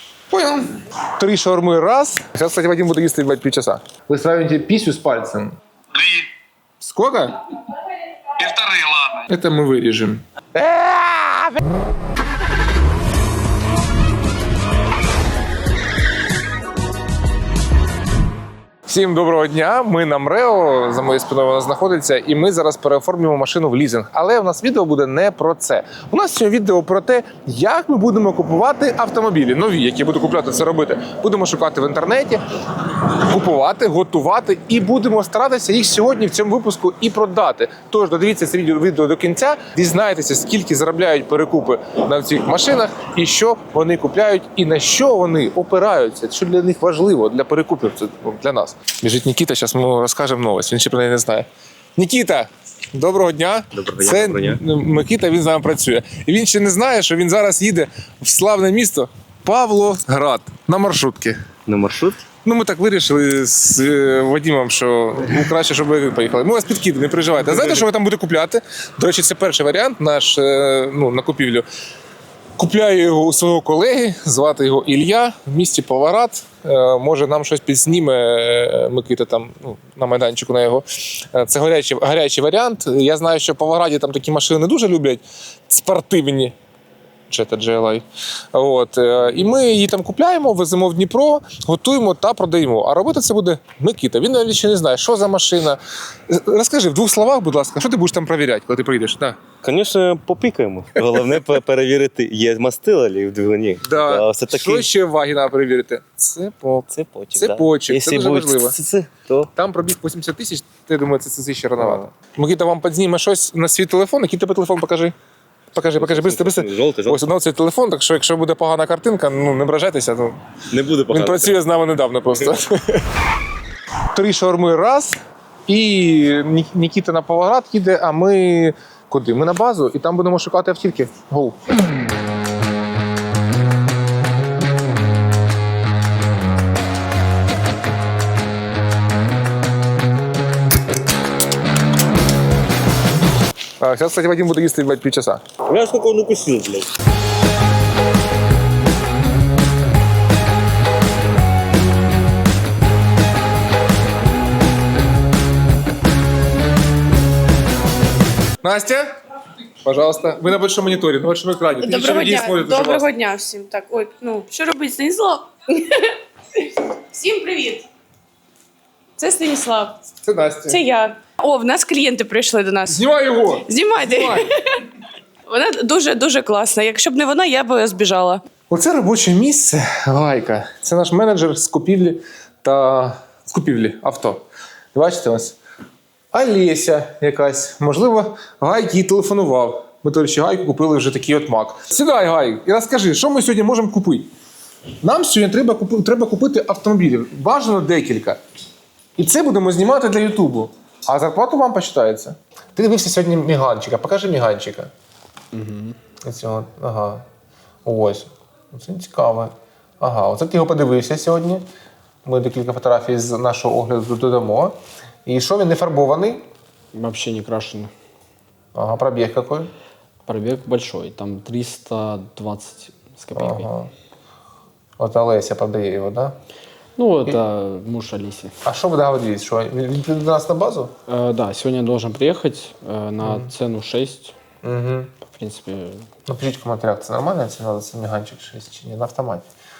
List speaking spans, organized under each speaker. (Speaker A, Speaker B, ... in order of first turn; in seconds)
Speaker A: 0.3-5.5, 6.8-7.3, 9.3-11.6, 18.9-32.4, 33.1-61.4, 62.4-71.7, 72.6-86.5, 87.3-99.4, 103.8-108.8, 109.5-115.1, 115.7-120.4, 121.1-123.0, 124.1-125.2, 125.7-131.6, 143.8-145.4, 158.6-159.1, 159.8-163.1, 170.2-170.8, 172.9-174.4, 178.7-184.4, 184.9-185.6, 186.3-194.3, 195.0-198.4, 199.2-204.9, 206.2-207.2, 207.8-211.6, 212.2-214.8, 215.3-216.4, 218.8-219.7, 223.3-223.9, 225.0-226.4, 228.6-230.9, 233.2-233.5, 234.6-235.1, 236.3-239.5
Speaker B: 5.9-6.3, 8.4-9.2, 116.1-116.8, 120.9-121.5
Speaker C: 53.8-54.6, 61.7-62.2, 99.6-104.9, 106.9-109.5, 116.0-117.2, 120.7-121.4, 145.7-146.7
Speaker D: 161.8-167.9, 169.2-170.0, 170.7-173.0, 173.7-174.5, 175.5-178.4
Speaker E: 205.5-206.0, 216.9-217.9, 220.3-223.7, 227.0-228.5, 231.1-234.3, 235.3-236.1